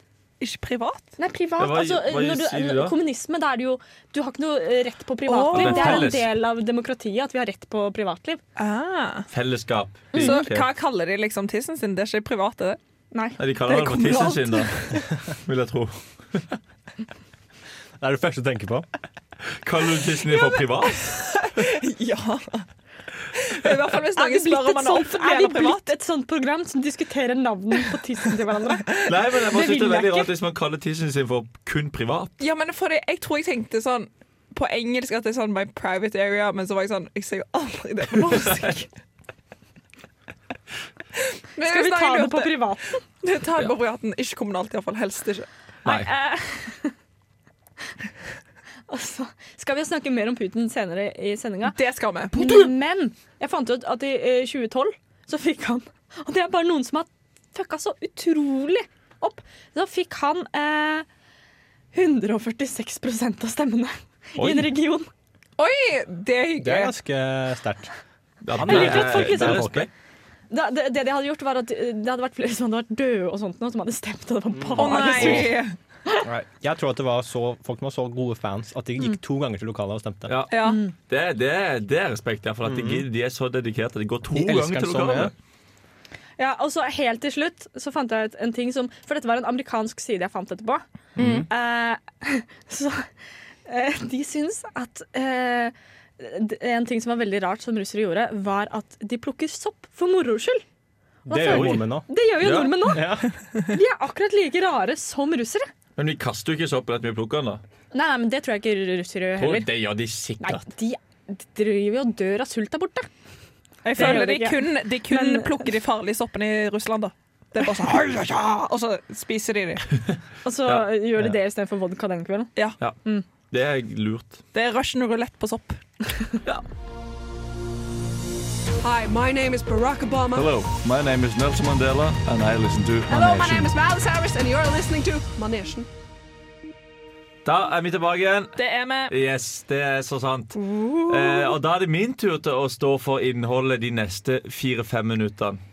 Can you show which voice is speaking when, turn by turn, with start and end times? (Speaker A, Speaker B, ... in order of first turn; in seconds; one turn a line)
Speaker A: 0.4-1.1
Speaker B: 1.2-8.4
Speaker C: 1.6-3.0
Speaker A: 5.2-6.1
Speaker C: 5.5-6.3
Speaker A: 8.6-9.3
Speaker C: 9.3-10.7
Speaker B: 10.1-10.4
Speaker A: 10.1-12.8
Speaker B: 13.1-13.4
Speaker C: 13.4-14.8
Speaker A: 13.6-15.0
Speaker C: 15.4-16.4
Speaker D: 18.0-18.9
Speaker C: 19.6-21.4
Speaker A: 20.3-22.6
Speaker A: 23.4-25.9
Speaker B: 24.1-29.0
Speaker C: 29.1-32.3
Speaker B: 29.5-30.3
Speaker A: 32.4-38.9
Speaker A: 41.5-42.6
Speaker B: 41.6-43.0
Speaker A: 43.2-45.5
Speaker B: 45.8-46.9
Speaker B: 48.9-51.8
Speaker A: 51.7-52.7
Speaker B: 52.3-61.0
Speaker B: 61.9-65.1
Speaker C: 64.4-64.6
Speaker A: 65.6-66.9
Speaker D: 66.6-67.9
Speaker C: 68.4-69.9
Speaker D: 68.5-69.9
Speaker B: 68.6-69.8
Speaker A: 68.6-68.9
Speaker B: 70.5-75.5
Speaker D: 74.5-75.1
Speaker A: 74.8-75.7
Speaker D: 76.2-80.3
Speaker C: 80.3-85.3
Speaker A: 80.5-80.8
Speaker B: 80.6-80.9
Speaker D: 82.6-83.0
Speaker D: 84.3-85.3
Speaker B: 86.4-90.8
Speaker A: 91.2-91.5
Speaker D: 91.2-91.5
Speaker B: 91.5-93.1
Speaker B: 93.7-100.6
Speaker D: 101.2-102.1
Speaker B: 101.2-105.7
Speaker C: 101.4-101.9
Speaker C: 102.4-103.1
Speaker D: 102.9-103.3
Speaker C: 106.0-107.6
Speaker B: 107.9-109.7
Speaker C: 109.4-110.7
Speaker B: 110.4-113.1
Speaker A: 113.8-120.0
Speaker B: 113.9-115.7
Speaker B: 120.4-122.5
Speaker C: 123.5-124.4
Speaker A: 124.5-125.8
Speaker E: 128.8-130.5
Speaker C: 130.3-133.7
Speaker A: 133.1-135.2
Speaker E: 135.3-135.9
Speaker C: 137.4-145.6
Speaker A: 138.6-139.1
Speaker A: 140.7-141.1